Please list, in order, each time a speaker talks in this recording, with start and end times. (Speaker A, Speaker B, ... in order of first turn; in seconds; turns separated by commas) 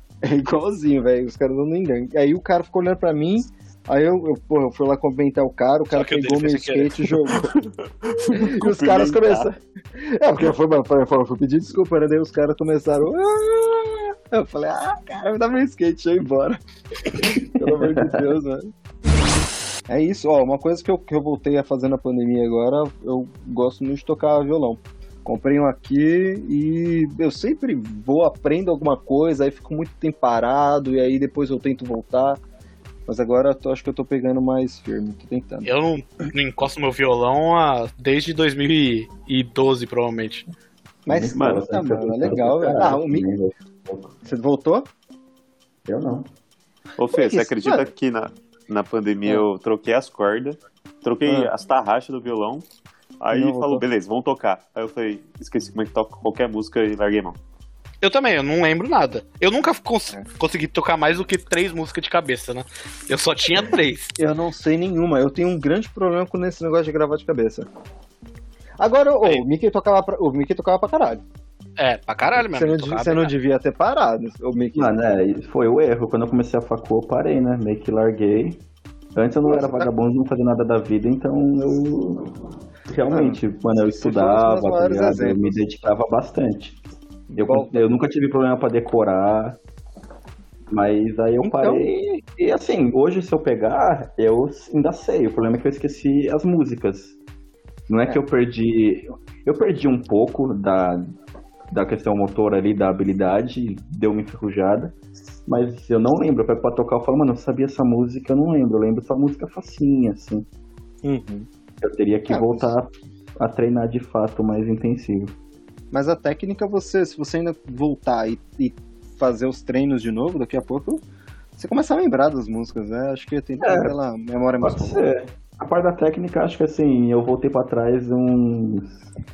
Speaker A: 0.2-7.5, Speaker B: 5.9-7.0, Speaker C: 7.6-9.5, Speaker A: 8.3-18.7, Speaker D: 17.6-18.3, Speaker A: 19.9-32.4, Speaker A: 33.1-35.7, Speaker B: 35.6-40.5, Speaker A: 41.0-43.3, Speaker D: 41.1-44.1, Speaker C: 41.3-41.6, Speaker A: 44.2-44.9, Speaker D: 45.9-46.3, Speaker C: 47.0-52.6, Speaker A: 47.1-47.9, Speaker A: 51.2-51.5, Speaker C: 53.2-57.4, Speaker A: 53.3-53.8, Speaker B: 58.0-64.1, Speaker A: 64.2-67.7, Speaker A: 68.8-71.2, Speaker B: 71.8-73.3, Speaker A: 72.5-75.1, Speaker D: 74.7-78.6, Speaker D: 79.1-82.3, Speaker A: 79.4-79.9, Speaker D: 82.9-86.8, Speaker A: 83.1-83.4, Speaker A: 84.0-85.6, Speaker A: 87.3-87.9, Speaker D: 87.4-89.6, Speaker D: 90.7-97.2, Speaker A: 91.4-91.8, Speaker D: 97.9-101.1, Speaker D: 101.7-104.9, Speaker D: 105.5-110.5, Speaker A: 111.0-111.5, Speaker D: 111.8-115.3, Speaker A: 112.3-112.7, Speaker A: 115.9-121.0, Speaker A: 121.5-125.0, Speaker D: 123.6-124.0, Speaker D: 124.6-129.0